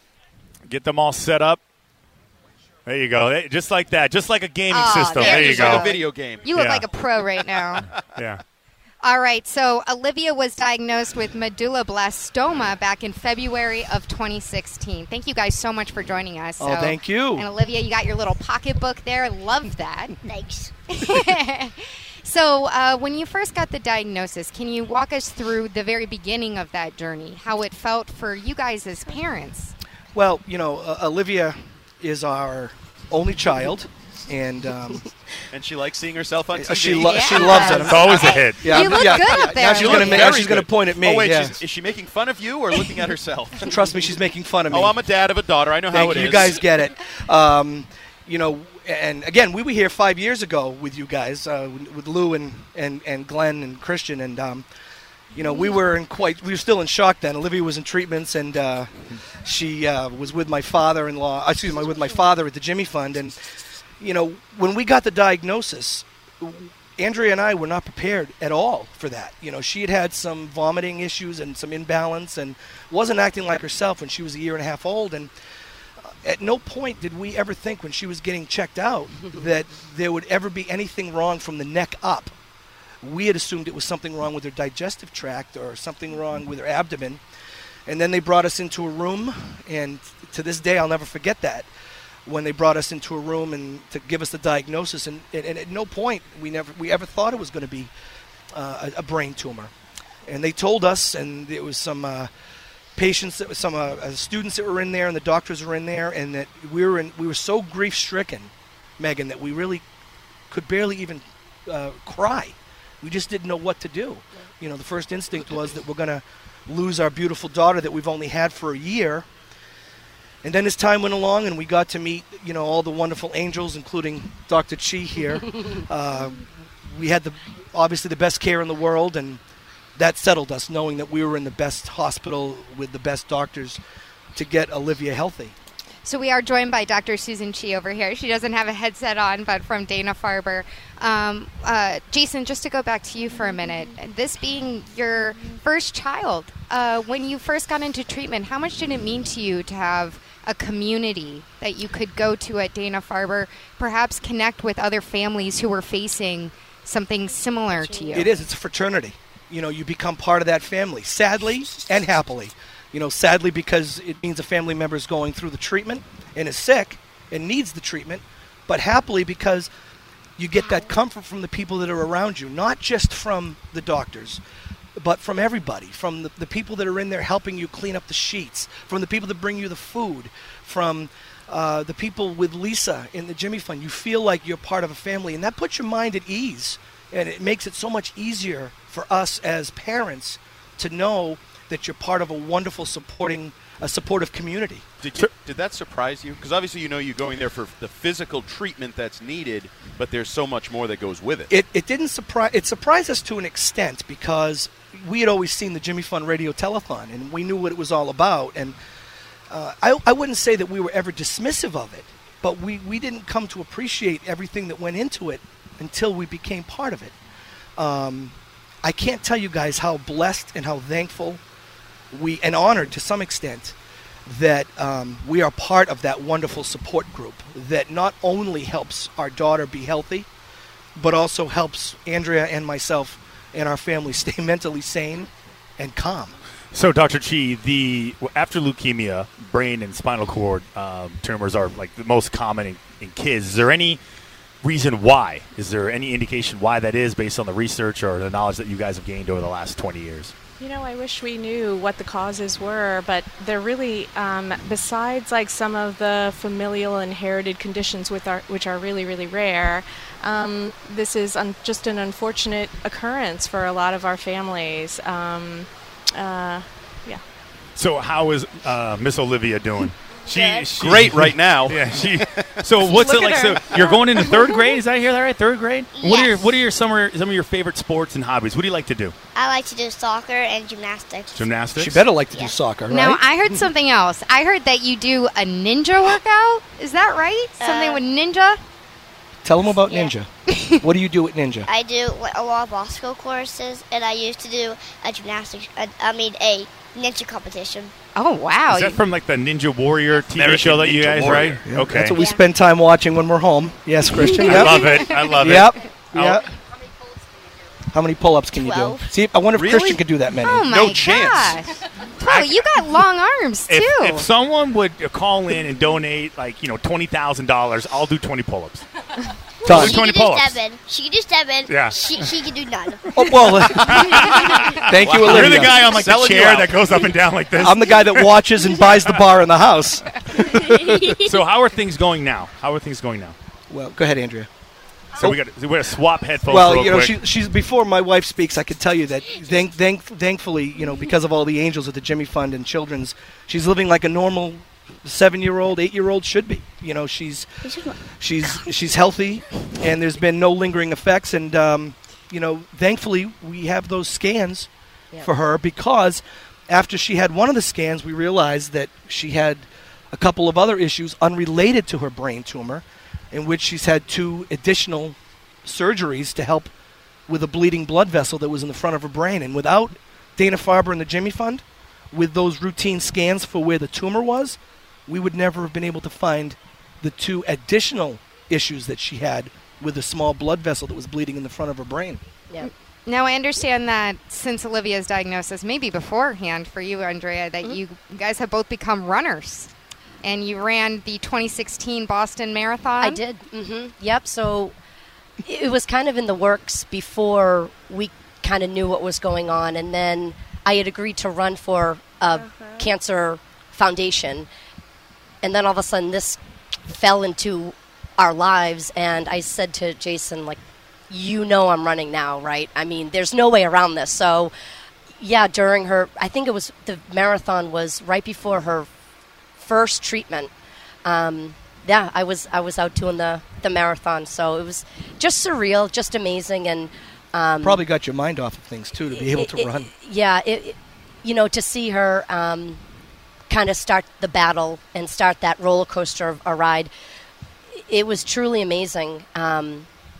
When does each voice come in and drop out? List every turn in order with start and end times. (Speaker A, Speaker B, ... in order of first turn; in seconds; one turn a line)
Speaker A: 0.7-1.6
Speaker A: 2.9-5.9
Speaker B: 4.7-7.8
Speaker C: 5.1-6.5
Speaker A: 6.5-6.9
Speaker C: 7.3-8.0
Speaker A: 8.0-8.4
Speaker B: 9.0-20.1
Speaker D: 16.6-17.5
Speaker E: 20.2-20.7
Speaker B: 20.9-29.7
Speaker D: 30.1-35.0
Speaker C: 35.5-38.4
Speaker D: 36.5-41.6
Speaker B: 37.0-40.2
Speaker A: 37.9-38.8
Speaker C: 38.9-46.7
Speaker D: 43.6-45.0
Speaker D: 45.9-54.6
Speaker D: 55.3-58.9
Speaker D: 59.4-63.5
Speaker D: 64.0-75.3
Speaker D: 76.0-82.3
Speaker D: 83.0-87.2
Speaker D: 87.9-91.7
Speaker D: 92.2-97.9
Speaker D: 98.5-99.7
Speaker D: 100.3-102.3
Speaker D: 103.0-109.8
Speaker D: 110.5-119.2
Speaker D: 120.4-129.4
Speaker D: 129.9-133.8
Speaker D: 134.3-135.5
Speaker B: 136.0-158.3
Speaker E: 157.4-158.5
Speaker D: 158.2-169.7
Speaker D: 170.4-174.4
Speaker E: 170.6-170.9
Speaker D: 175.0-194.8
Speaker C: 195.0-201.5
Speaker D: 201.5-208.8
Speaker D: 209.5-217.1
Speaker D: 217.8-221.4
Speaker D: 222.1-223.8
Speaker D: 224.3-230.3
Speaker D: 230.9-236.3
Speaker A: 236.7-244.0
Speaker A: 244.6-250.3
Speaker F: 250.6-267.2
Speaker A: 267.8-279.1
Speaker E: 270.2-270.7
Speaker C: 270.7-273.6
Speaker F: 273.1-273.4
Speaker E: 275.9-276.5
Speaker E: 279.3-281.5
Speaker A: 281.3-282.0
Speaker D: 281.7-283.7
Speaker E: 282.1-282.6
Speaker B: 282.9-288.6
Speaker E: 287.6-288.0
Speaker D: 289.4-290.3
Speaker E: 289.6-290.1
Speaker B: 290.5-290.8
Speaker D: 290.8-291.7
Speaker E: 291.7-297.9
Speaker B: 298.1-299.0
Speaker A: 298.7-302.2
Speaker C: 300.3-301.6
Speaker D: 301.6-304.9
Speaker E: 302.1-302.4
Speaker E: 304.1-304.9
Speaker A: 304.4-306.4
Speaker D: 305.4-306.5
Speaker D: 307.9-310.7
Speaker E: 308.5-309.1
Speaker C: 309.5-310.0
Speaker B: 310.4-314.2
Speaker C: 310.6-311.7
Speaker A: 312.2-312.6
Speaker A: 313.7-318.9
Speaker A: 319.6-320.6
Speaker E: 319.6-324.5
Speaker D: 319.6-320.0
Speaker A: 321.7-322.3
Speaker D: 323.1-323.8
Speaker A: 323.8-328.4
Speaker D: 324.9-325.9
Speaker C: 325.0-327.1
Speaker D: 327.6-330.5
Speaker A: 330.5-333.3
Speaker E: 330.7-331.3
Speaker D: 333.7-334.5
Speaker A: 335.2-337.1
Speaker D: 336.5-347.5
Speaker E: 347.6-348.7
Speaker D: 348.1-354.7
Speaker D: 355.2-366.7
Speaker D: 367.3-382.2
Speaker B: 382.6-389.7
Speaker B: 390.2-393.2
Speaker G: 393.0-394.7
Speaker G: 395.4-404.5
Speaker E: 402.3-402.9
Speaker G: 405.4-410.6
Speaker G: 411.1-414.5
Speaker G: 415.2-418.9
Speaker G: 419.6-420.5
Speaker G: 421.0-427.8
Speaker D: 427.6-429.9
Speaker G: 429.1-432.8
Speaker G: 433.5-436.9
Speaker G: 437.7-439.9